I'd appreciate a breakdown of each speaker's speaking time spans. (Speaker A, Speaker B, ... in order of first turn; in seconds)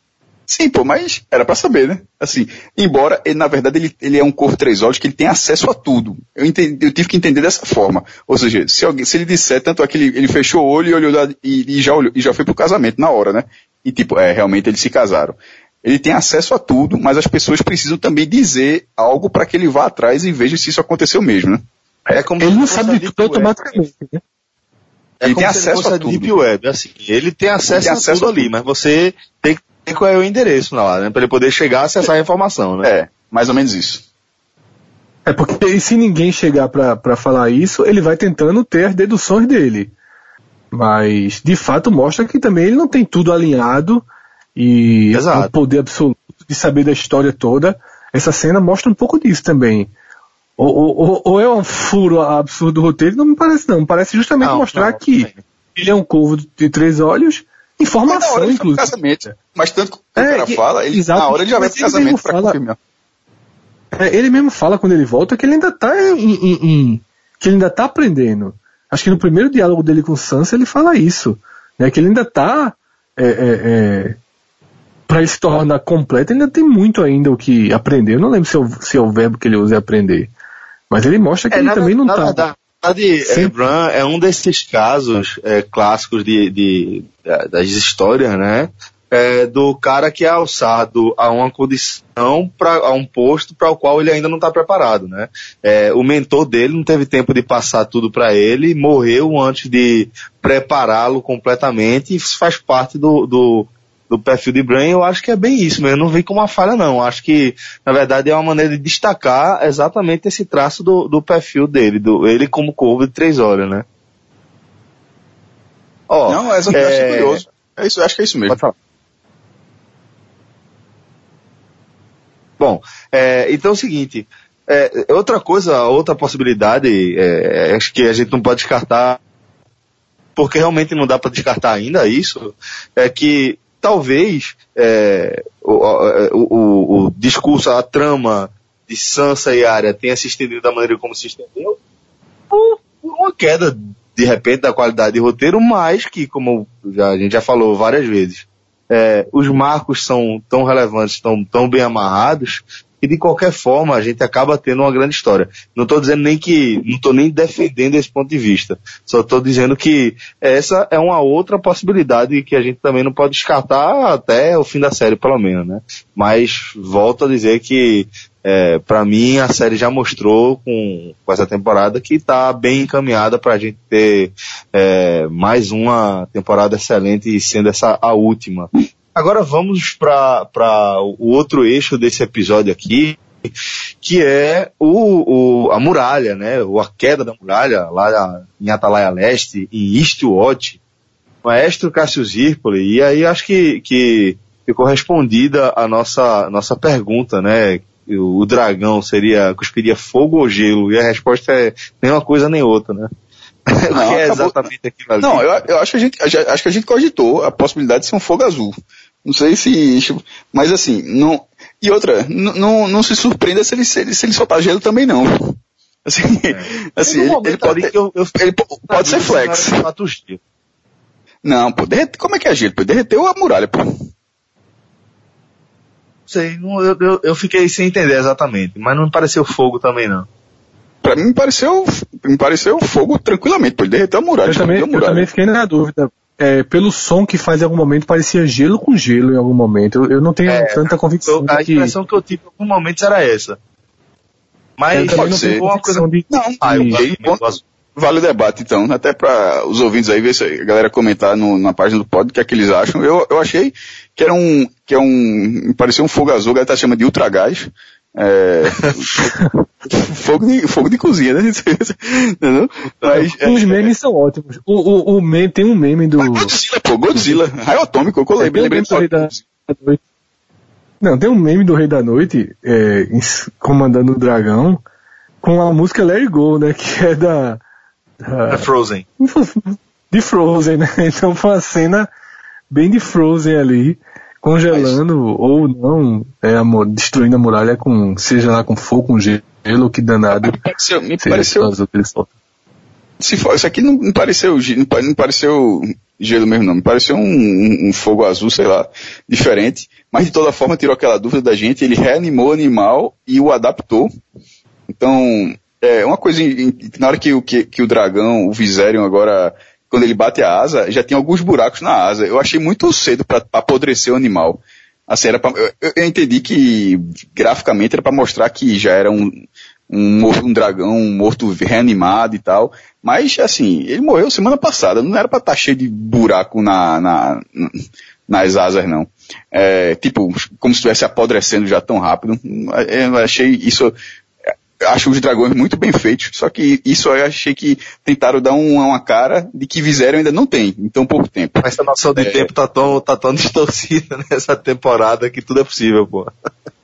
Speaker A: 0.5-21.6, 25.2-26.3, 27.7-28.5, 32.8-34.0, 58.0-62.8, 116.3-118.6, 203.9-204.6, 205.2-208.7, 209.2-219.8, 221.4-223.9, 231.0-235.3, 245.1-245.6, 246.3-247.4, 247.9-263.9, 266.2-269.4, 290.3-291.7, 293.2-304.1, 304.9-333.9, 334.8-341.6, 342.1-342.5
Speaker B: 22.1-23.6, 25.2-32.9, 45.1-45.5, 54.4-55.4, 81.5-113.8, 116.1-117.4, 118.5-118.7, 122.6-129.2, 130.3-141.8, 142.5-183.2, 184.0-190.8, 191.4-203.1, 203.7-205.4, 216.5-218.3, 218.9-220.4, 226.3-230.3, 240.4-243.6, 244.8-246.1, 246.6-247.6, 278.5-279.0, 284.7-285.0, 341.6-346.3
Speaker C: 22.4-24.2, 35.2-39.9, 40.7-49.9, 50.6-59.3, 60.2-62.6, 64.0-74.2, 75.1-80.3, 80.9-82.5, 83.2-83.5, 234.4-241.9, 244.9-247.0, 263.1-266.5, 267.1-267.4, 268.4-270.0, 271.0-274.8, 275.4-277.6, 278.2-278.6, 279.2-282.1, 282.7-290.6, 291.2-292.3